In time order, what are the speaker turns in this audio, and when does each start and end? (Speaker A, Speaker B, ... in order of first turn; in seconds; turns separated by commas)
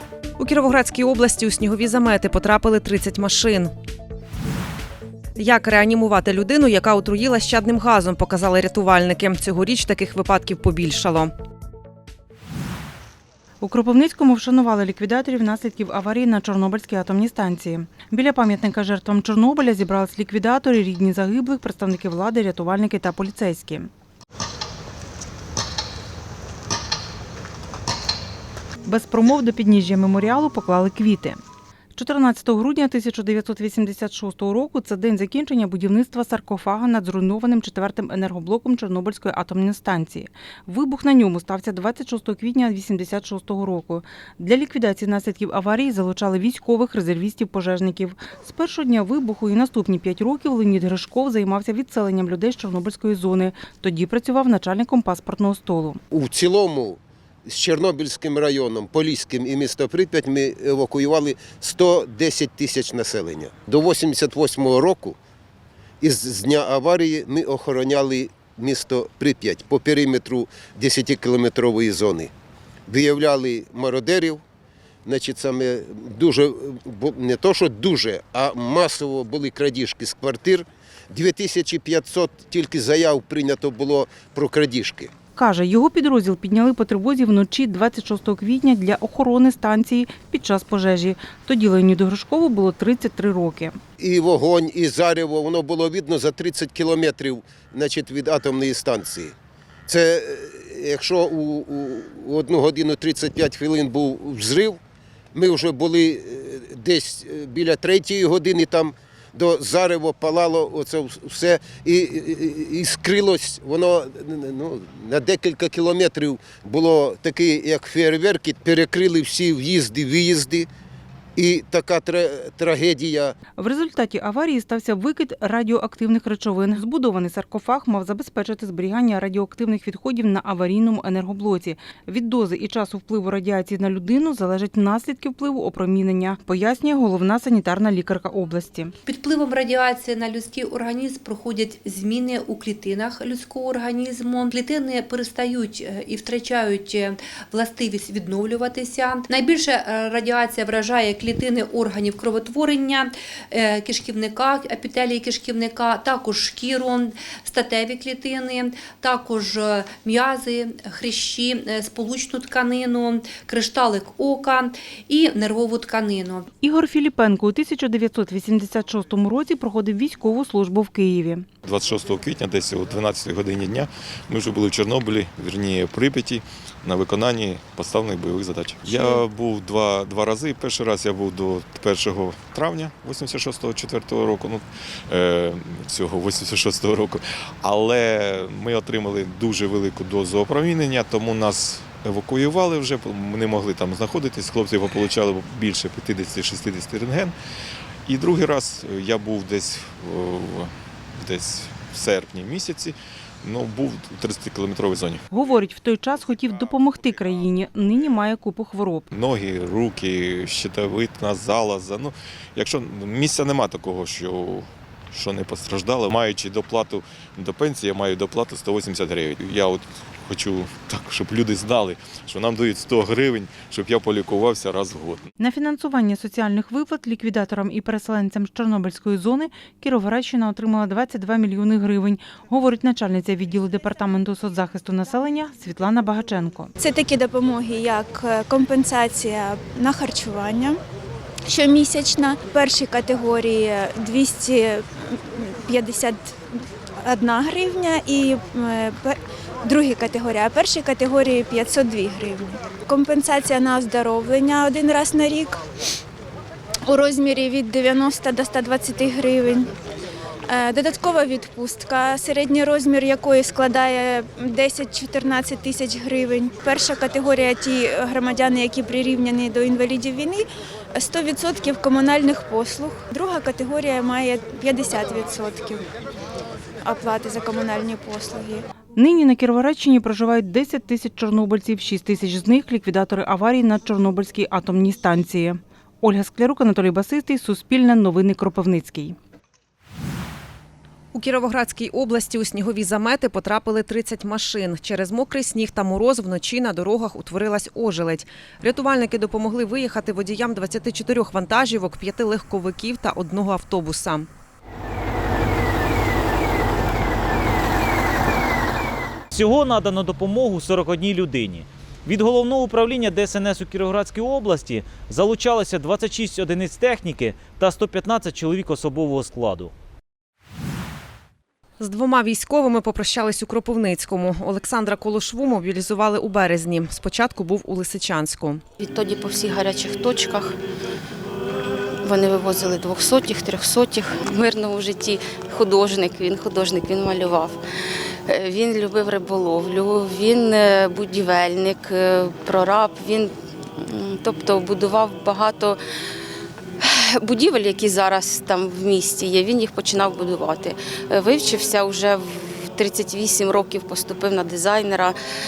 Speaker A: 0.4-3.7, Speaker A: 5.3-11.3, Speaker B: 13.6-23.8, Speaker B: 28.9-31.3, Speaker B: 32.0-56.0, Speaker C: 56.1-65.2, Speaker C: 66.0-72.3, Speaker C: 72.9-74.4, Speaker C: 75.0-85.1, Speaker B: 85.3-93.8, Speaker C: 94.0-99.3, Speaker C: 99.9-104.8, Speaker C: 105.3-120.7, Speaker C: 121.3-123.3, Speaker B: 123.6-138.9, Speaker D: 139.1-166.5, Speaker B: 166.6-171.4, Speaker E: 171.6-197.3, Speaker E: 198.1-205.2, Speaker B: 205.3-209.1, Speaker E: 209.1-225.3, Speaker B: 225.4-236.7, Speaker F: 236.8-240.8, Speaker F: 241.5-246.4, Speaker F: 247.0-255.6, Speaker F: 256.9-259.7, Speaker F: 260.5-275.8, Speaker F: 276.8-278.6, Speaker B: 279.0-289.1, Speaker A: 291.1-304.3, Speaker G: 309.3-319.7, Speaker A: 321.8-328.6, Speaker H: 328.8-330.6, Speaker H: 332.0-337.6, Speaker H: 338.3-345.8, Speaker H: 346.8-355.2